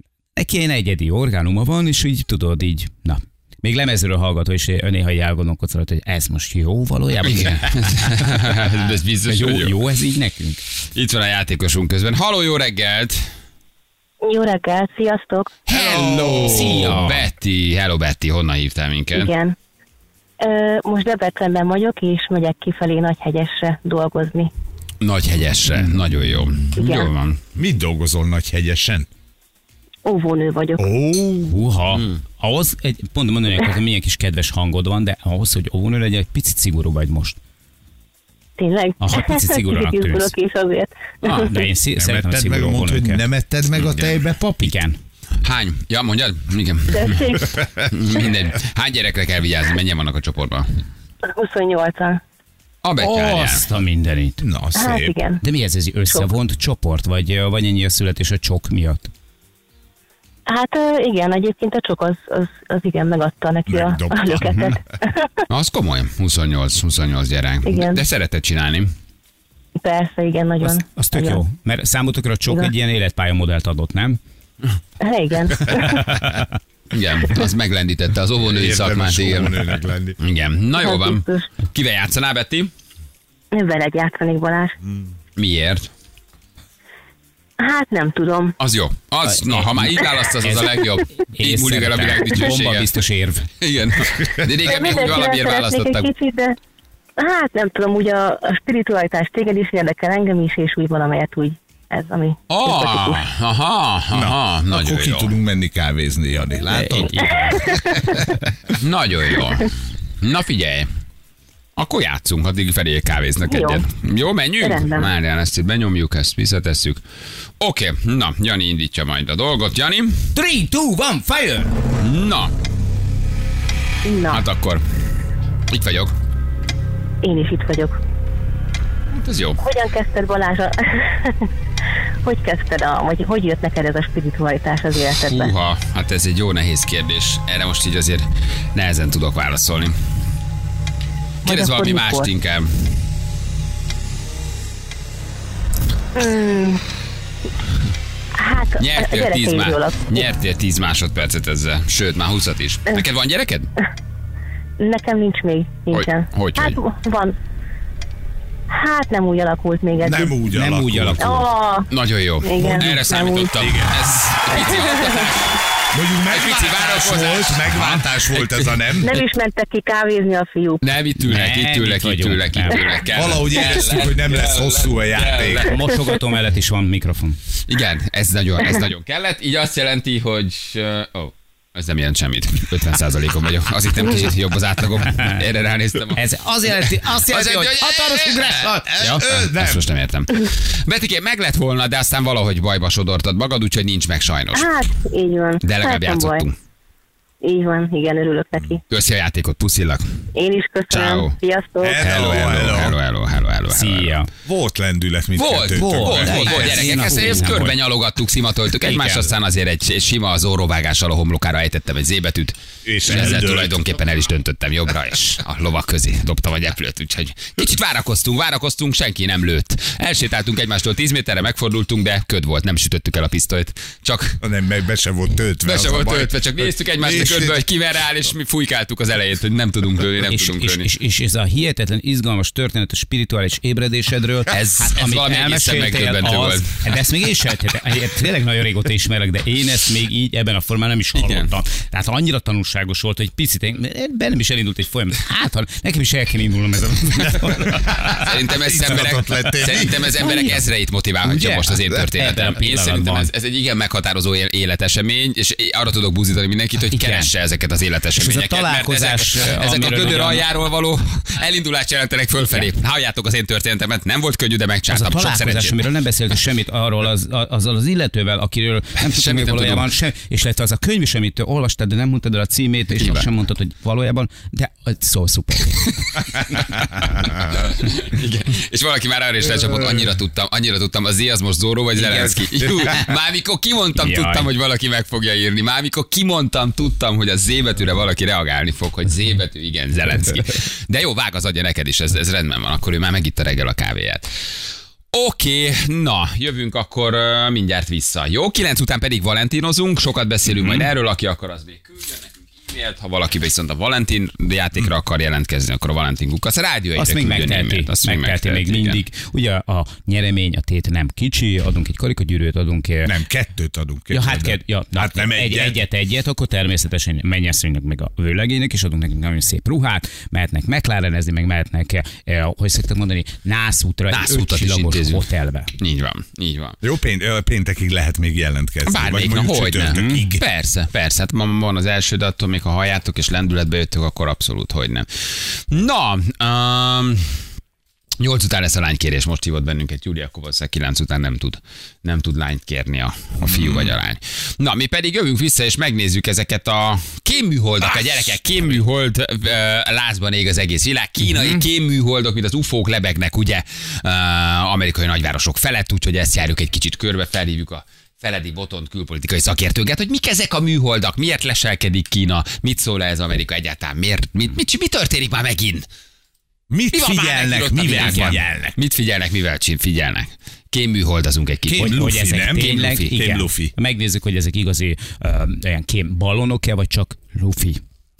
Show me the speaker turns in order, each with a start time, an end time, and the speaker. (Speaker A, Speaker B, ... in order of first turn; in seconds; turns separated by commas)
Speaker A: 0.3-8.6, Speaker B: 7.2-9.7, Speaker A: 9.2-10.6, Speaker B: 10.9-13.3, Speaker C: 14.2-15.6, Speaker B: 15.7-19.3, Speaker D: 15.7-16.7, Speaker A: 16.2-17.3, Speaker C: 19.1-19.6, Speaker C: 20.4-24.5, Speaker B: 25.0-27.4, Speaker C: 26.7-27.1, Speaker D: 27.5-29.1, Speaker C: 30.0-30.9, Speaker D: 30.8-31.6, Speaker A: 31.5-37.4, Speaker C: 38.6-41.6, Speaker A: 39.0-40.3, Speaker B: 41.2-41.5, Speaker A: 41.3-43.2, Speaker D: 41.9-44.7, Speaker B: 43.7-44.2, Speaker A: 44.4-45.0, Speaker B: 45.4-50.7, Speaker C: 46.9-47.5, Speaker C: 51.2-52.2, Speaker B: 52.8-53.6, Speaker A: 53.0-54.4, Speaker D: 54.4-55.1, Speaker C: 54.7-55.4, Speaker A: 55.4-59.1, Speaker C: 60.5-65.2, Speaker D: 63.7-64.8, Speaker B: 65.5-68.9, Speaker C: 67.6-68.0, Speaker C: 69.8-71.4, Speaker A: 70.7-74.2, Speaker C: 75.0-76.1, Speaker B: 76.9-82.7, Speaker D: 78.5-80.2, Speaker C: 80.8-81.5, Speaker C: 83.5-84.7, Speaker B: 85.4-85.9, Speaker C: 87.6-88.5, Speaker B: 88.6-92.9, Speaker A: 89.2-93.5, Speaker B: 93.6-96.1, Speaker C: 94.6-96.6, Speaker C: 97.2-103.2, Speaker B: 102.5-105.3, Speaker D: 104.1-108.2, Speaker A: 106.7-108.2, Speaker C: 107.5-107.9, Speaker B: 108.7-110.9, Speaker B: 111.8-117.0, Speaker C: 113.5-113.8, Speaker C: 114.6-115.1, Speaker B: 117.6-120.3, Speaker A: 120.3-121.7, Speaker B: 122.0-122.5, Speaker C: 124.0-124.4, Speaker B: 124.3-124.8, Speaker B: 125.7-126.1, Speaker C: 127.2-128.0, Speaker B: 129.1-129.6, Speaker C: 129.6-131.5, Speaker C: 132.2-135.5, Speaker B: 135.1-139.9, Speaker C: 141.4-142.3, Speaker B: 141.4-142.9, Speaker C: 146.1-146.8, Speaker C: 148.4-150.3, Speaker B: 148.8-153.7, Speaker C: 154.8-157.3, Speaker B: 155.9-156.8, Speaker C: 158.7-160.3, Speaker D: 160.0-161.5, Speaker A: 160.4-161.4, Speaker C: 161.2-161.9, Speaker B: 161.9-165.5, Speaker C: 162.4-163.5, Speaker D: 163.6-164.0, Speaker C: 164.5-165.3, Speaker D: 165.9-169.2, Speaker B: 166.3-168.8, Speaker C: 169.0-170.8, Speaker B: 170.8-175.8, Speaker A: 171.2-173.0, Speaker D: 173.1-175.7, Speaker A: 175.6-177.4, Speaker B: 177.7-186.2, Speaker A: 186.1-189.2, Speaker B: 187.2-194.7, Speaker D: 187.7-189.8, Speaker C: 194.5-196.4, Speaker B: 195.6-196.5, Speaker C: 197.4-198.8, Speaker B: 198.9-200.2, Speaker C: 200.3-202.0, Speaker B: 200.9-201.3, Speaker D: 201.8-203.0, Speaker B: 202.0-204.2, Speaker A: 203.7-204.3, Speaker D: 204.4-207.5, Speaker B: 205.3-224.4, Speaker A: 205.7-207.8, Speaker A: 208.8-209.3, Speaker D: 212.8-213.8, Speaker D: 224.4-227.6, Speaker B: 225.6-230.9, Speaker A: 230.3-248.3, Speaker B: 234.5-236.8, Speaker B: 241.2-241.5, Speaker D: 247.9-250.2, Speaker B: 248.2-265.8, Speaker A: 250.0-250.6, Speaker A: 251.2-253.3, Speaker A: 256.9-257.3, Speaker A: 258.2-260.4, Speaker A: 264.9-277.0, Speaker B: 269.0-269.9, Speaker B: 272.9-273.2, Speaker B: 277.2-294.3, Speaker A: 281.9-283.1, Speaker A: 284.0-284.5, Speaker B: 295.1-309.0, Speaker A: 306.9-313.1, Speaker D: 313.0-315.8, Speaker A: 314.1-325.7, Speaker B: 324.1-325.2, Speaker B: 325.8-326.8, Speaker D: 326.8-330.4, Speaker B: 328.9-337.3, Speaker A: 329.8-330.3, Speaker B: 338.2-365.9, Speaker D: 343.4-343.9, Speaker A: 351.2-351.6, Speaker D: 366.7-368.8, Speaker B: 366.9-373.0, Speaker D: 371.7-373.7, Speaker A: 371.8-377.8